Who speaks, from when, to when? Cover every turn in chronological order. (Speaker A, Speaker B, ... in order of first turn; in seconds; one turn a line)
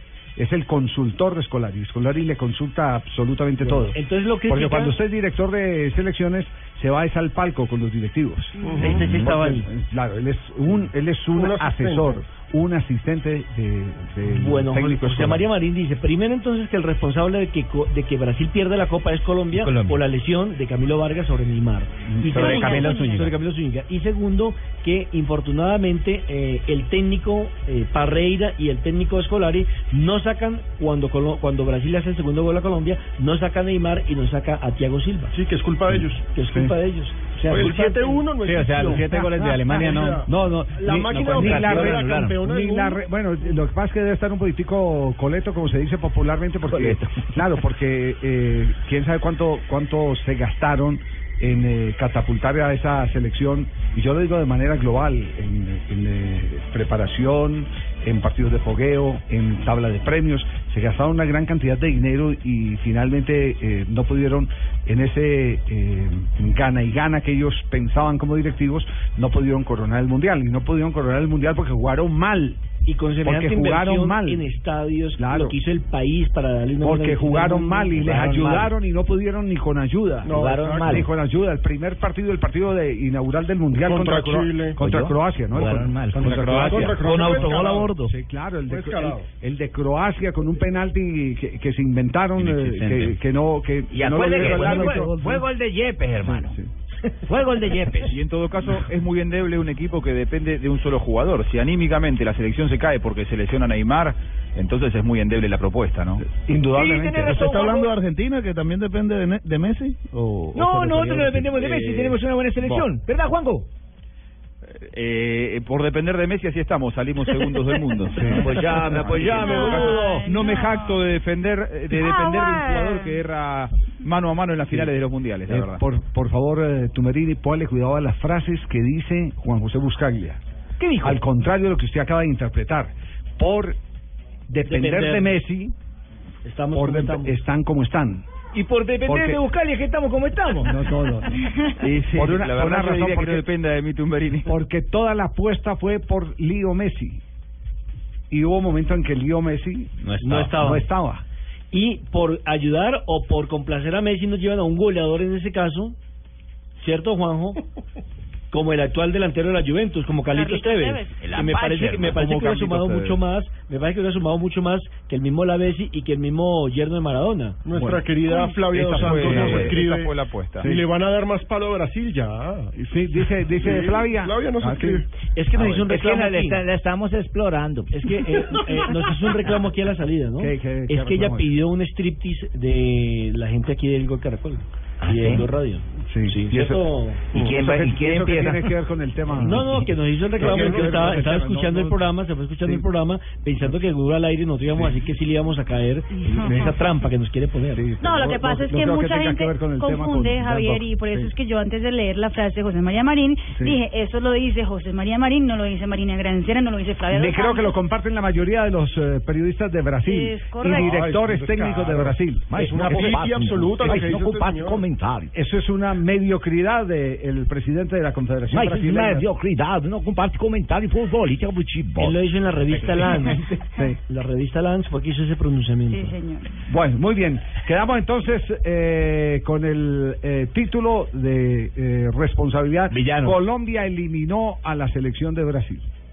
Speaker A: 0.4-15.5
Speaker B: 3.6-5.0
Speaker C: 8.6-8.9
Speaker D: 8.6-9.1
Speaker B: 8.8-9.6
Speaker D: 11.3-12.2
Speaker B: 14.3-35.4
Speaker E: 19.6-20.0
Speaker A: 22.1-23.3
Speaker C: 22.4-23.3
Speaker D: 35.3-36.2
Speaker A: 35.9-36.8
Speaker B: 36.3-37.8
Speaker D: 37.5-43.0
Speaker E: 37.5-40.2
Speaker A: 39.1-72.6
Speaker E: 41.0-42.4
Speaker E: 46.7-47.3
Speaker B: 72.9-78.7
Speaker A: 73.2-74.5
Speaker A: 75.2-75.6
Speaker A: 76.8-87.1
Speaker E: 78.2-78.7
Speaker D: 80.2-81.0
Speaker E: 80.3-81.1
Speaker D: 83.8-84.8
Speaker E: 84.8-88.1
Speaker F: 86.2-86.7
Speaker D: 86.7-87.9
Speaker A: 88.0-95.1
Speaker D: 88.7-89.3
Speaker E: 92.4-93.2
Speaker E: 93.9-96.6
Speaker D: 94.6-95.0
Speaker A: 96.2-96.7
Speaker E: 97.3-98.2
Speaker F: 98.1-106.2
Speaker A: 106.2-107.5
Speaker E: 106.7-108.0
Speaker G: 107.3-111.5
Speaker E: 110.5-113.7
Speaker F: 111.6-112.9
Speaker F: 114.8-125.8
Speaker E: 117.4-120.3
Speaker A: 118.2-118.5
Speaker C: 119.2-121.1
Speaker C: 122.0-123.1
Speaker A: 125.5-130.4
Speaker A: 131.0-133.8
Speaker A: 134.5-135.7
Speaker B: 134.7-135.4
Speaker B: 136.4-137.4
Speaker A: 136.7-138.3
Speaker B: 138.6-140.6
Speaker E: 138.7-140.8
Speaker A: 139.1-139.5
Speaker A: 140.6-141.6
Speaker F: 141.8-144.5
Speaker A: 142.1-143.5
Speaker A: 144.5-147.2
Speaker A: 148.3-151.2
Speaker B: 150.2-150.9
Speaker B: 151.7-156.0
Speaker B: 156.8-157.6
Speaker B: 158.5-167.6
Speaker C: 160.3-161.2
Speaker E: 161.2-162.2
Speaker F: 162.1-163.2
Speaker D: 167.7-172.7
Speaker A: 167.7-168.1
Speaker F: 168.7-170.7
Speaker A: 168.8-169.8
Speaker A: 170.6-170.8
Speaker A: 172.8-175.0
Speaker D: 173.5-175.1
Speaker B: 175.3-176.7
Speaker E: 175.6-177.9
Speaker B: 177.9-187.2
Speaker A: 180.4-181.6
Speaker E: 185.0-185.5
Speaker A: 186.1-186.8
Speaker E: 187.3-188.7
Speaker A: 187.4-189.8
Speaker B: 189.3-197.9
Speaker A: 190.3-192.1
Speaker D: 190.4-191.2
Speaker C: 196.2-196.8
Speaker A: 196.3-196.7
Speaker A: 197.7-201.3
Speaker C: 198.0-207.8
Speaker A: 207.1-213.1
Speaker C: 210.1-211.0
Speaker D: 210.6-214.9
Speaker E: 212.5-215.3
Speaker A: 215.3-219.3
Speaker E: 218.5-222.2
Speaker B: 222.0-226.2
Speaker A: 223.7-224.0
Speaker C: 225.9-226.5
Speaker A: 226.6-235.8
Speaker E: 232.9-233.4